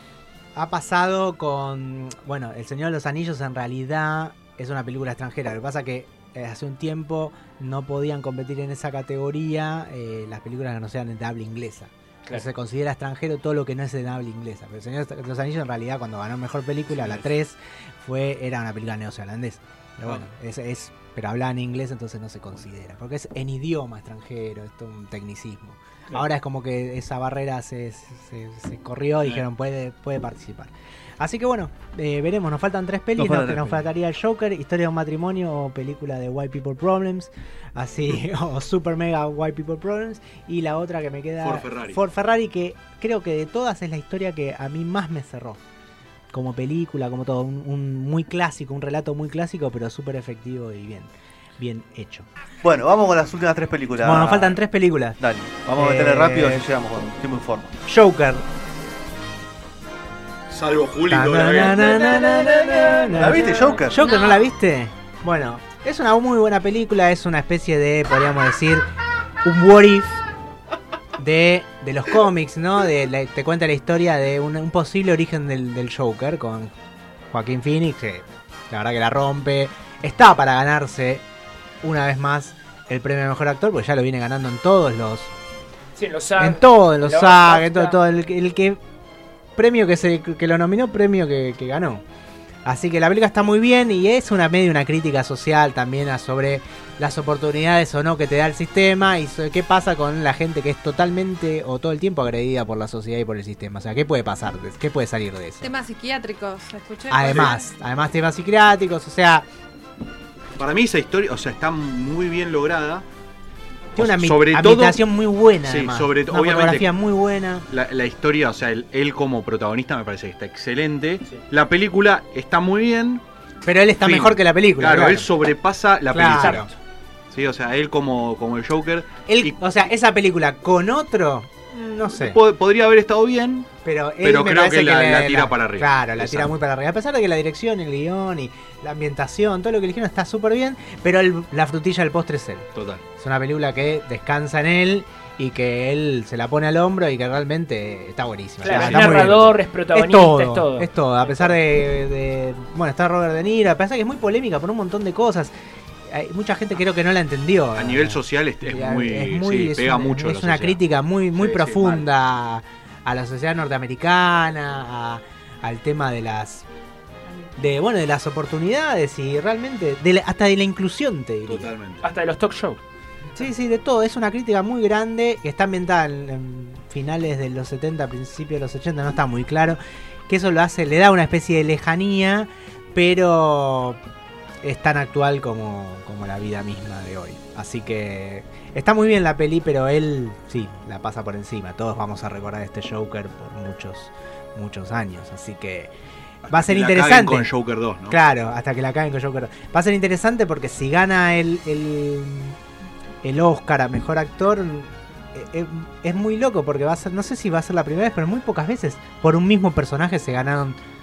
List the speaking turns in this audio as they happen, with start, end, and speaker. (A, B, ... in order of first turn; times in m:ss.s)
0:00.6-0:45.6 A
0:16.9-0:17.3 B
0:33.2-0:33.9 C
0:41.4-0:42.0 B
0:46.3-0:52.3 A
0:52.6-0:54.6 C
0:54.0-0:55.2 A
0:55.2-0:57.7 C
0:55.8-0:56.6 A
0:57.9-0:58.4 A
1:00.5-1:03.3 B
1:01.1-1:08.9 A
1:03.1-1:04.0 C
1:04.0-1:04.5 D
1:09.4-1:10.2 A
1:11.2-1:16.7 A
1:17.3-1:21.2 A
1:21.8-1:25.3 A
1:26.0-1:28.0 E
1:26.4-1:28.8 A
1:29.6-1:32.0 A
1:32.6-1:45.7 A
1:45.6-1:47.7 D
1:47.1-1:49.4 A
1:47.3-1:47.5 B
1:50.6-1:53.0 B
1:54.0-1:55.0 B
1:54.0-1:57.6 A
1:55.6-1:56.9 B
1:57.7-2:03.2 B
2:03.6-2:05.3 A
2:04.0-2:06.7 B
2:06.1-2:06.7 A
2:06.3-2:06.7 E
2:07.3-2:09.5 B
2:09.3-2:12.4 A
2:12.1-2:13.7 B
2:13.8-2:22.7 A
2:14.2-2:16.5 B
2:22.7-2:23.0 B
2:23.2-2:35.5 A
2:28.6-2:30.9 E
2:28.6-2:29.4 B
2:36.1-2:46.6 A
2:37.8-2:40.8 B
2:41.3-2:42.1 B
2:47.6-2:51.7 A
2:51.4-2:52.0 B
2:52.0-2:52.8 E
2:53.4-3:04.0 A
3:04.6-3:15.9 A
3:16.5-3:17.5 A
3:16.5-3:18.2 B
3:18.1-3:22.6 A
3:23.2-3:30.8 A